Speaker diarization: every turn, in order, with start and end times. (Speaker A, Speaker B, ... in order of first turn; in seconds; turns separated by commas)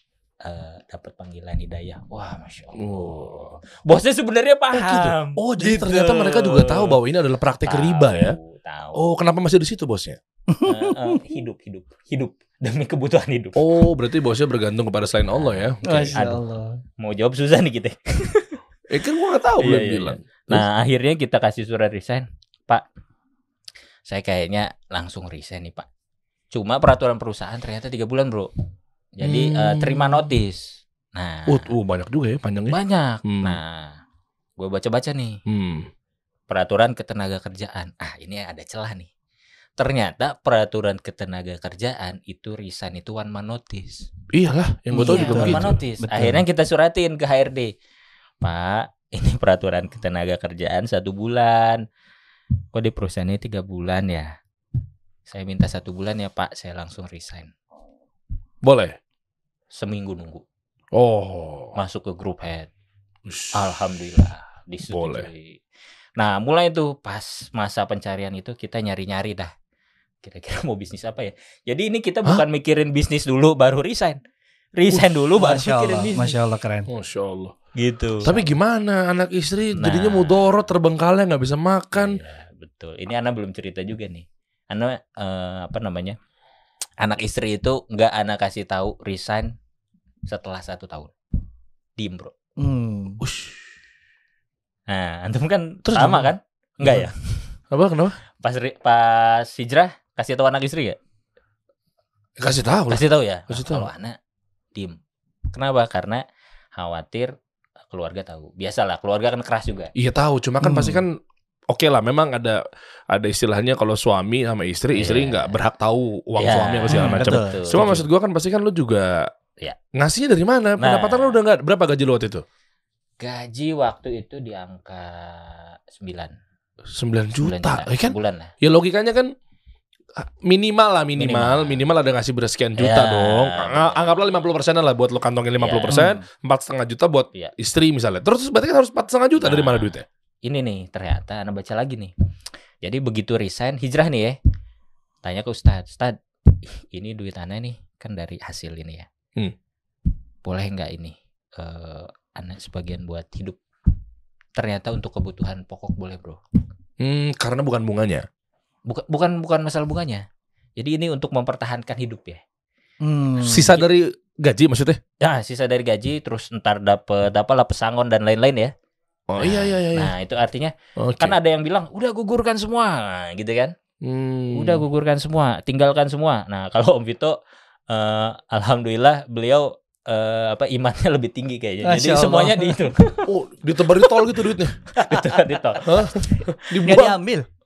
Speaker A: 0.4-5.4, Speaker B: 2.8-3.5, Speaker C: 4.8-7.0, Speaker B: 5.4-8.4, Speaker A: 7.7-9.0, Speaker B: 8.9-10.2, Speaker C: 10.5-11.2, Speaker A: 10.7-13.7, Speaker B: 13.6-16.2, Speaker A: 15.3-16.4, Speaker C: 15.8-16.8, Speaker A: 17.0-18.6, Speaker B: 18.9-20.7, Speaker A: 19.6-22.8, Speaker A: 24.1-25.9, Speaker A: 26.5-28.5, Speaker A: 29.2-31.7, Speaker B: 29.2-30.3, Speaker B: 31.5-33.6, Speaker A: 32.7-34.0, Speaker A: 34.6-35.4, Speaker B: 35.5-35.9, Speaker A: 36.5-39.1, Speaker A: 39.8-44.1, Speaker B: 44.3-45.8, Speaker C: 44.9-46.4, Speaker A: 45.0-47.7, Speaker A: 48.4-51.8, Speaker A: 52.7-54.4, Speaker A: 55.3-57.5, Speaker B: 58.6-59.0, Speaker A: 59.8-60.4, Speaker B: 60.9-61.7, Speaker A: 61.8-62.7, Speaker B: 63.3-63.7, Speaker A: 63.5-65.6, Speaker B: 64.9-65.3, Speaker A: 66.2-69.5, Speaker A: 70.2-74.2, Speaker A: 74.8-76.4, Speaker C: 75.0-76.9, Speaker B: 76.9-77.6, Speaker A: 77.8-78.5, Speaker B: 78.2-82.2, Speaker A: 79.8-80.4, Speaker A: 81.9-86.2, Speaker A: 87.0-89.5, Speaker A: 90.3-91.1, Speaker A: 92.0-92.3, Speaker C: 92.6-93.2, Speaker B: 93.2-93.6, Speaker A: 94.9-97.5, Speaker B: 95.8-96.3, Speaker B: 96.8-97.1, Speaker B: 97.7-98.2, Speaker A: 98.4-101.0, Speaker B: 102.4-103.9, Speaker A: 102.9-104.2, Speaker A: 105.5-106.2, Speaker A: 106.8-107.3, Speaker A: 107.9-109.9, Speaker B: 110.0-111.2, Speaker C: 110.6-111.1, Speaker B: 111.7-112.6, Speaker B: 113.1-119.3, Speaker A: 114.9-115.6, Speaker A: 116.4-118.0, Speaker C: 116.9-118.0, Speaker B: 119.9-122.4, Speaker A: 120.8-121.4, Speaker A: 123.2-126.3, Speaker B: 126.9-129.3, Speaker A: 127.4-128.5, Speaker B: 130.2-140.1, Speaker A: 131.2-131.9, Speaker A: 132.8-134.2, Speaker A: 135.6-136.2, Speaker A: 139.4-139.9, Speaker A: 140.4-142.1, Speaker A: 142.8-144.4, Speaker A: 145.2-149.1, Speaker A: 150.4-153.6, Speaker A: 154.6-156.4, Speaker B: 157.0-158.3, Speaker A: 158.9-160.2, Speaker A: 160.8-162.4, Speaker C: 163.0-163.8, Speaker B: 163.4-165.0, Speaker A: 163.5-163.9, Speaker A: 165.2-168.7, Speaker B: 169.3-170.1, Speaker A: 169.4-173.7, Speaker B: 171.0-171.4, Speaker B: 174.0-174.8, Speaker A: 174.5-177.4, Speaker A: 177.9-183.3, Speaker C: 181.8-182.8, Speaker B: 183.3-184.8, Speaker A: 185.0-186.6, Speaker C: 185.0-185.3, Speaker B: 185.8-187.2, Speaker C: 186.8-187.5